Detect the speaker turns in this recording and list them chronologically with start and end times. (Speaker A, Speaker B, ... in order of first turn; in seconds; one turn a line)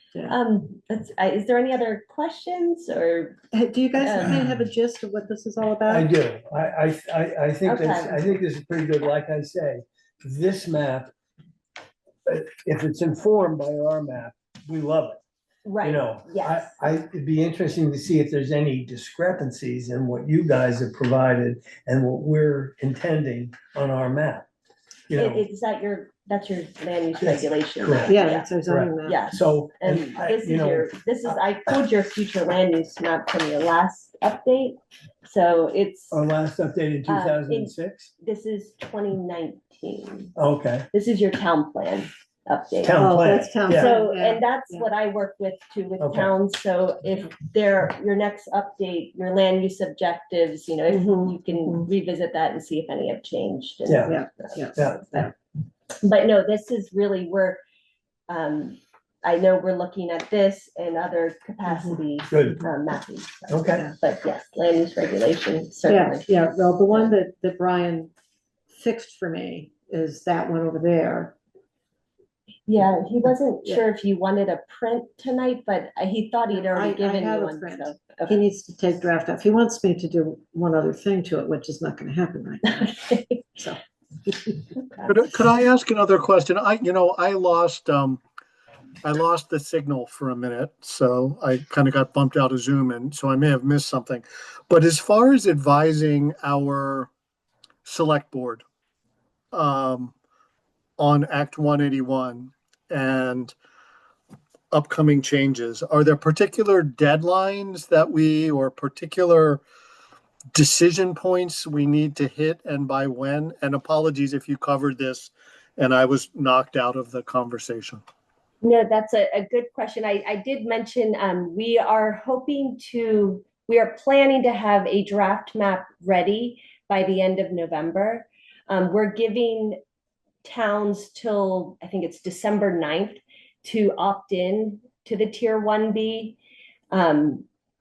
Speaker A: 0.2-3.4
Speaker B: 3.5-6.1
Speaker A: 4.0-4.4
Speaker C: 5.9-11.1
Speaker A: 7.6-8.2
Speaker C: 12.2-15.2
Speaker A: 15.6-16.7
Speaker C: 15.8-24.5
Speaker C: 25.1-25.4
Speaker A: 25.1-28.5
Speaker C: 27.2-30.9
Speaker B: 28.1-29.3
Speaker A: 29.0-36.2
Speaker C: 36.1-38.1
Speaker A: 37.1-40.3
Speaker C: 40.4-40.9
Speaker A: 40.9-43.1
Speaker C: 42.8-43.9
Speaker B: 43.0-44.9
Speaker A: 43.7-54.8
Speaker C: 46.0-46.3
Speaker B: 50.9-51.9
Speaker C: 53.9-54.1
Speaker B: 54.1-55.3
Speaker C: 54.8-55.2
Speaker A: 56.0-57.6
Speaker A: 58.3-66.3
Speaker B: 61.6-62.0
Speaker C: 62.3-62.6
Speaker C: 63.5-63.9
Speaker B: 65.9-68.1
Speaker B: 68.7-71.3
Speaker A: 72.7-78.4
Speaker B: 76.5-83.8
Speaker A: 82.8-83.4
Speaker A: 84.7-85.1
Speaker D: 85.0-88.2
Speaker D: 89.0-97.1
Speaker D: 97.8-98.6
Speaker D: 99.5-100.1
Speaker D: 101.0-103.5
Speaker D: 104.7-109.6
Speaker D: 110.5-118.0
Speaker A: 118.6-129.8
Speaker A: 130.4-136.4
Speaker A: 136.9-137.4